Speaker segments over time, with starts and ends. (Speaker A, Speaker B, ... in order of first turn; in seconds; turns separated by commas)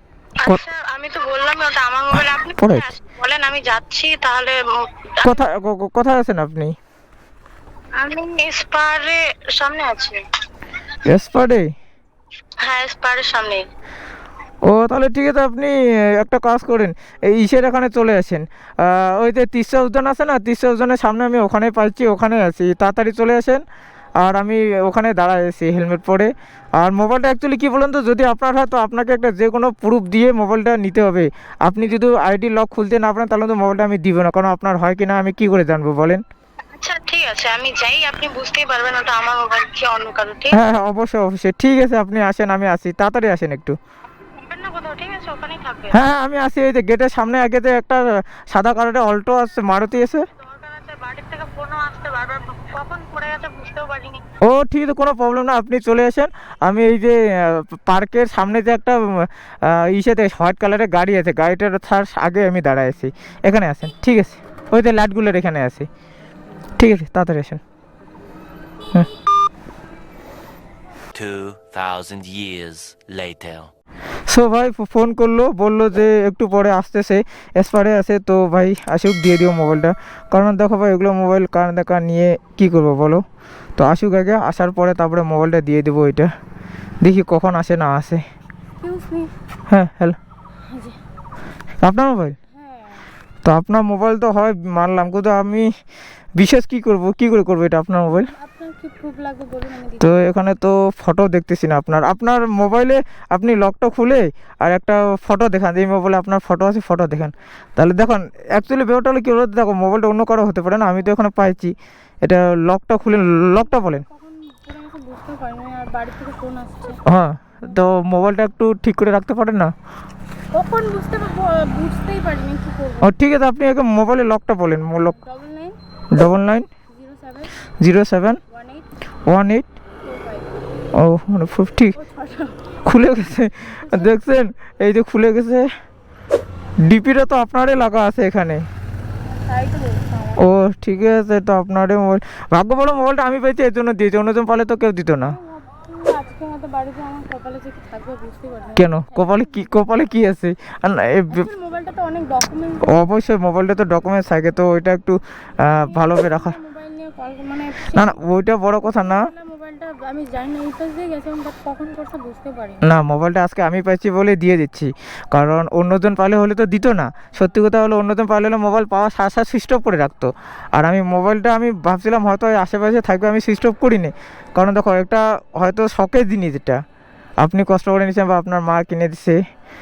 Speaker A: 0.4-5.3, Speaker B: 2.1-2.9, Speaker B: 5.2-6.8, Speaker A: 8.0-10.2, Speaker B: 11.1-11.7, Speaker A: 12.6-13.6, Speaker B: 14.7-23.6, Speaker B: 24.2-36.2, Speaker A: 36.8-40.6, Speaker B: 40.5-43.8, Speaker A: 44.4-46.0, Speaker B: 45.9-50.2, Speaker A: 50.3-54.2, Speaker B: 54.4-65.9, Speaker B: 66.8-67.6, Speaker C: 71.1-73.7, Speaker B: 74.3-83.2, Speaker B: 83.8-86.3, Speaker B: 87.0-88.2, Speaker D: 88.8-89.3, Speaker B: 89.7-90.2, Speaker D: 90.7-91.0, Speaker B: 91.8-92.4, Speaker D: 92.5-93.1, Speaker B: 93.4-95.7, Speaker B: 96.4-98.3, Speaker D: 98.1-100.3, Speaker B: 100.0-114.0, Speaker D: 113.2-117.0, Speaker B: 117.0-119.7, Speaker D: 120.5-123.2, Speaker B: 123.0-125.2, Speaker D: 125.1-125.8, Speaker B: 126.1-126.7, Speaker D: 126.9-127.6, Speaker B: 127.8-128.4, Speaker D: 128.5-128.9, Speaker B: 129.3-129.7, Speaker D: 130.0-130.6, Speaker B: 131.0-131.9, Speaker D: 131.9-132.8, Speaker B: 132.8-135.7, Speaker D: 133.7-134.2, Speaker B: 136.8-138.6, Speaker D: 139.3-140.6, Speaker B: 140.4-145.4, Speaker D: 145.3-150.1, Speaker B: 148.8-151.4, Speaker D: 151.3-153.0, Speaker B: 152.8-156.6, Speaker D: 155.8-158.2, Speaker B: 157.9-159.3, Speaker D: 158.8-162.8, Speaker B: 162.8-176.8, Speaker B: 177.4-179.4